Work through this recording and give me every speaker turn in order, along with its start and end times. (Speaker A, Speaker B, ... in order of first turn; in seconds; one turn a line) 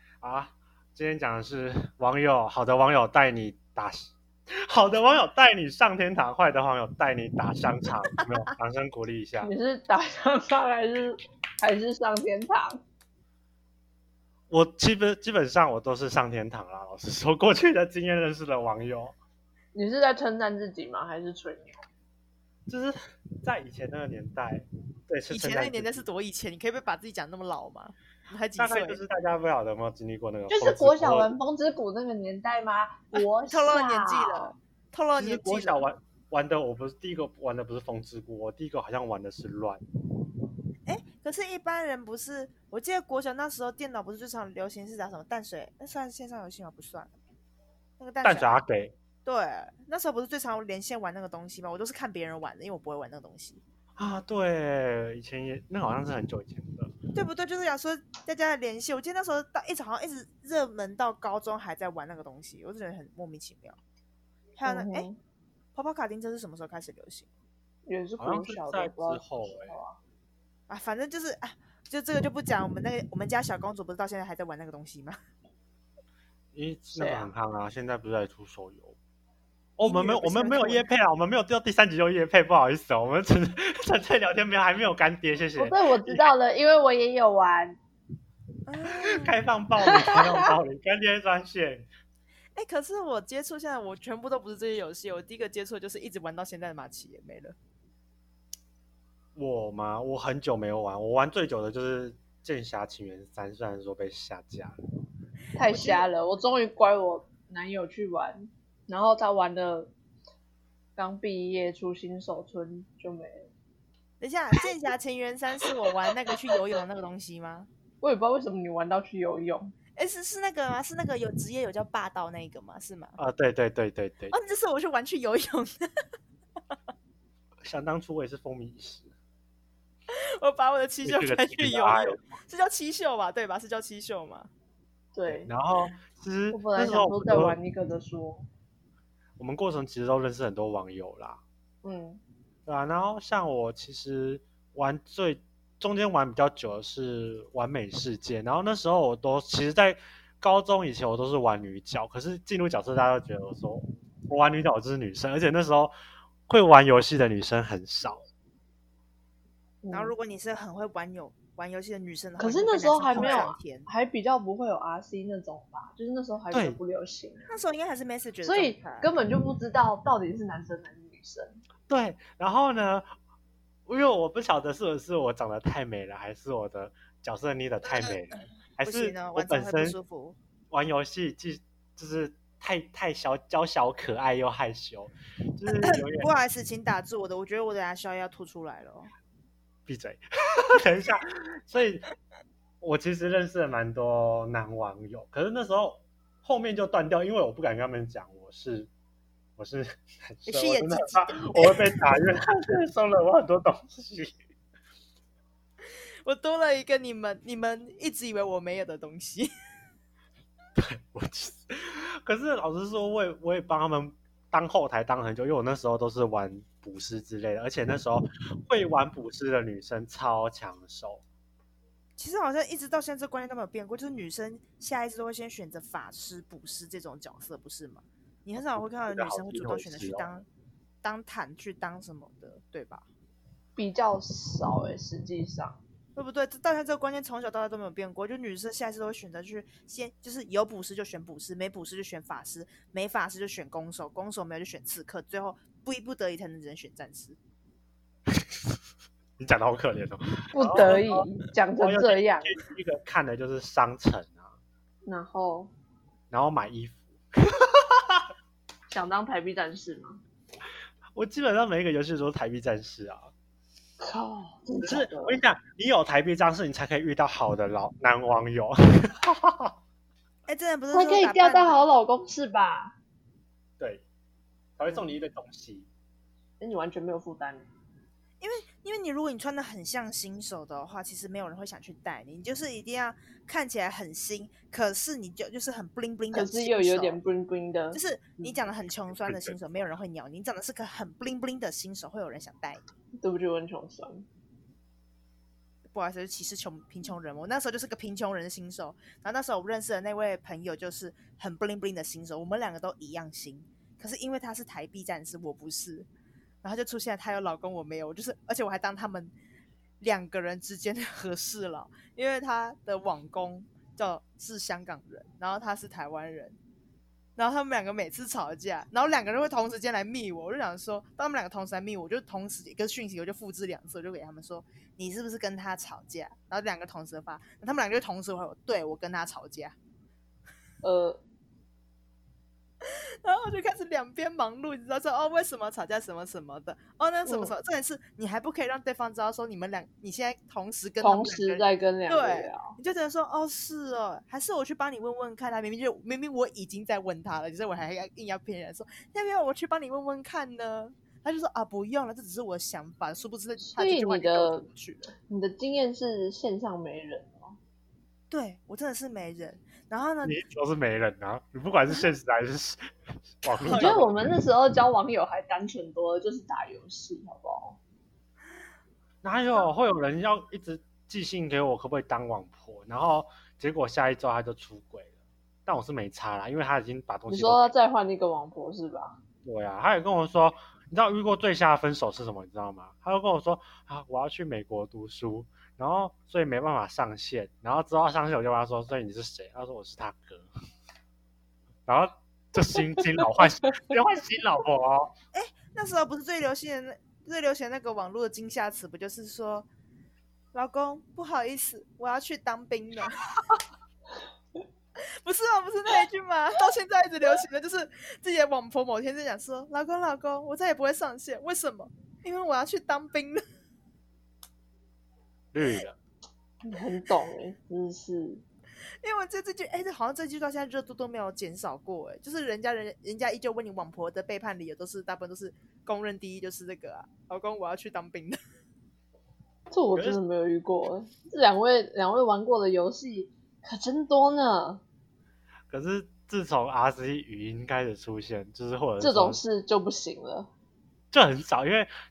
Speaker A: 0.2-4.1
Speaker A: 4.7-9.5
Speaker B: 9.4-12.8
Speaker A: 14.5-19.1
Speaker B: 19.7-21.8
Speaker A: 22.7-26.1
Speaker C: 25.3-29.0
Speaker A: 28.6-31.3
Speaker B: 30.5-34.5
Speaker C: 33.5-35.9
Speaker A: 35.1-39.8
Speaker C: 40.9-47.1
Speaker C: 48.0-48.6
Speaker A: 48.2-48.9
Speaker C: 49.2-53.6
Speaker A: 54.0-56.9
Speaker C: 57.1-63.8
Speaker C: 64.6-65.1
Speaker B: 64.6-65.2
Speaker C: 65.7-67.3
Speaker B: 67.8-70.0
Speaker A: 68.2-69.8
Speaker C: 70.7-75.2
Speaker A: 76.5-79.0
Speaker B: 76.9-77.3
Speaker A: 79.8-86.3
Speaker C: 79.8-80.8
Speaker B: 85.6-87.8
Speaker C: 88.7-89.3
Speaker A: 89.0-91.9
Speaker B: 89.9-90.2
Speaker C: 92.5-97.5
Speaker A: 99.3-104.8
Speaker B: 105.5-109.9
Speaker C: 105.6-106.1
Speaker B: 111.0-113.5
Speaker C: 114.2-117.7
Speaker B: 118.0-119.7
Speaker C: 120.0-123.2
Speaker A: 123.2-124.3
Speaker C: 124.3-125.8
Speaker A: 127.6-129.1
Speaker C: 130.1-134.5
Speaker A: 131.0-132.3
Speaker B: 135.1-135.5
Speaker A: 135.3-137.6
Speaker B: 136.5-138.5
Speaker A: 139.4-141.4
Speaker B: 141.8-142.2
Speaker A: 142.7-155.9
Speaker A: 156.5-158.2
Speaker B: 159.8-160.1
Speaker C: 159.9-163.9
Speaker B: 162.4-167.5
Speaker A: 163.1-163.4
Speaker A: 166.5-166.8
Speaker C: 167.5-169.1
Speaker B: 168.4-171.6
Speaker A: 171.9-173.1
Speaker A: 173.9-179.9
Speaker C: 178.8-180.4
Speaker A: 180.7-186.3
Speaker C: 185.7-189.1
Speaker A: 189.8-192.1
Speaker A: 192.8-198.9
Speaker A: 199.6-204.4
Speaker C: 200.5-202.2
Speaker C: 206.2-209.5
Speaker A: 210.8-221.2
Speaker C: 222.2-230.4
Speaker A: 228.6-230.3
Speaker C: 231.0-233.1
Speaker B: 233.8-235.8
Speaker C: 236.2-247.4
Speaker A: 249.4-251.2
Speaker B: 250.5-252.5
Speaker A: 251.8-254.5
Speaker B: 255.0-255.7
Speaker A: 256.3-258.3
Speaker B: 258.9-260.2
Speaker A: 261.1-263.3
Speaker B: 264.0-265.4
Speaker A: 264.8-269.7
Speaker C: 270.5-271.8
Speaker B: 270.9-272.9
Speaker A: 273.8-274.0
Speaker A: 274.8-275.9
Speaker B: 276.6-277.7
Speaker C: 278.4-287.2
Speaker B: 286.3-288.0
Speaker C: 287.9-292.8
Speaker A: 289.1-289.6
Speaker B: 293.2-294.2
Speaker C: 295.9-306.1
Speaker C: 306.6-309.3
Speaker C: 310.0-316.6
Speaker C: 317.4-329.8
Speaker B: 330.8-331.2
Speaker C: 332.8-355.1
Speaker B: 337.2-337.5
Speaker B: 341.0-342.7
Speaker B: 353.6-354.6
Speaker B: 355.2-357.6
Speaker C: 358.3-360.4
Speaker A: 360.2-362.8
Speaker A: 363.4-364.1
Speaker C: 363.6-364.1
Speaker B: 363.7-367.8
Speaker A: 369.2-375.1
Speaker A: 375.6-377.7
Speaker B: 377.3-379.2
Speaker A: 379.4-390.5
Speaker A: 391.9-395.1
Speaker C: 395.3-399.7
Speaker C: 400.5-403.4
Speaker C: 405.0-413.4
Speaker A: 415.5-416.0
Speaker B: 416.6-418.4
Speaker C: 419.0-428.4
Speaker B: 429.7-434.8
Speaker A: 429.9-430.2
Speaker A: 435.7-439.4
Speaker B: 439.0-440.5
Speaker A: 441.1-441.9